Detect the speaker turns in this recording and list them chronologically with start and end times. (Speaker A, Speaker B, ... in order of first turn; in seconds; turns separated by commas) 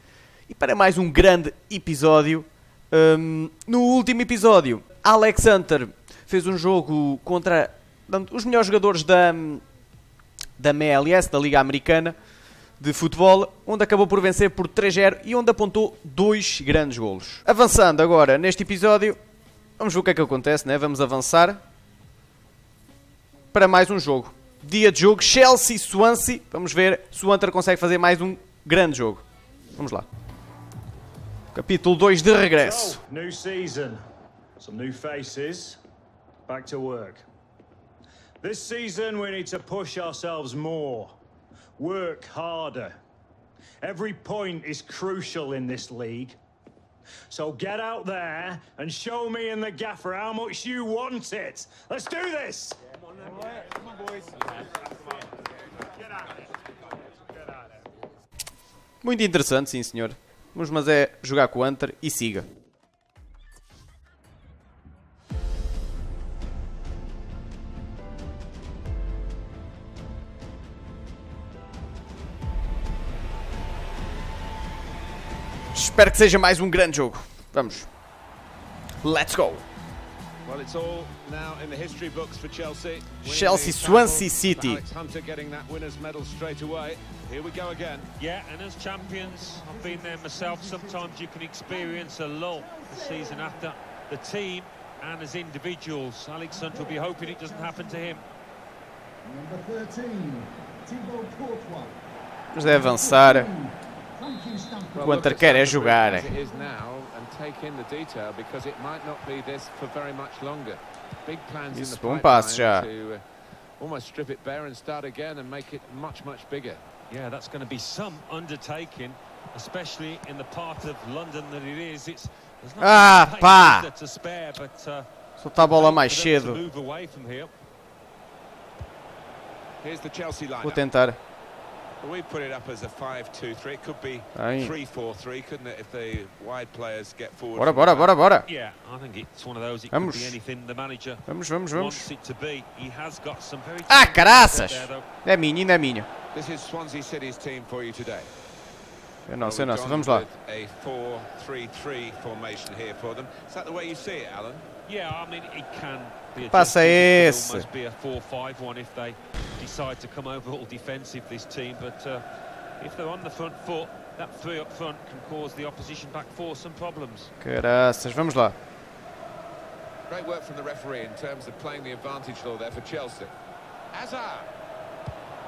Speaker A: 0.5-9.6, Speaker A: 10.6-12.2, Speaker A: 12.8-19.2, Speaker A: 19.8-21.6, Speaker A: 23.5-29.2, Speaker A: 29.8-30.1, Speaker A: 31.5-33.0, Speaker B: 32.6-34.0, Speaker B: 34.6-35.8, Speaker B: 36.5-37.2, Speaker B: 38.4-41.1, Speaker B: 41.8-42.9, Speaker B: 43.8-46.4, Speaker B: 47.3-52.8, Speaker A: 59.0-62.5, Speaker A: 75.7-77.9, Speaker A: 79.0-79.7, Speaker C: 80.4-88.1, Speaker A: 83.2-84.8, Speaker D: 88.2-98.2, Speaker E: 89.0-91.2, Speaker E: 91.7-93.7, Speaker E: 96.5-98.2, Speaker E: 99.2-102.0, Speaker A: 102.5-103.5, Speaker E: 102.6-105.3, Speaker C: 105.0-113.2, Speaker A: 105.0-106.4, Speaker A: 111.7-112.9, Speaker C: 113.8-116.8, Speaker D: 117.1-127.5, Speaker A: 122.8-123.9, Speaker A: 125.4-126.6, Speaker C: 129.8-130.8, Speaker A: 130.6-131.2, Speaker C: 132.0-138.2, Speaker A: 134.3-134.8, Speaker A: 137.5-138.5, Speaker D: 138.4-145.0, Speaker A: 139.9-140.4, Speaker A: 141.2-142.1, Speaker A: 143.9-146.1, Speaker C: 146.3-148.3, Speaker A: 149.3-150.2, Speaker C: 149.4-154.7, Speaker D: 154.8-162.2, Speaker A: 156.3-157.7, Speaker D: 162.8-167.3, Speaker A: 167.4-168.6, Speaker C: 170.1-173.3, Speaker C: 173.9-174.5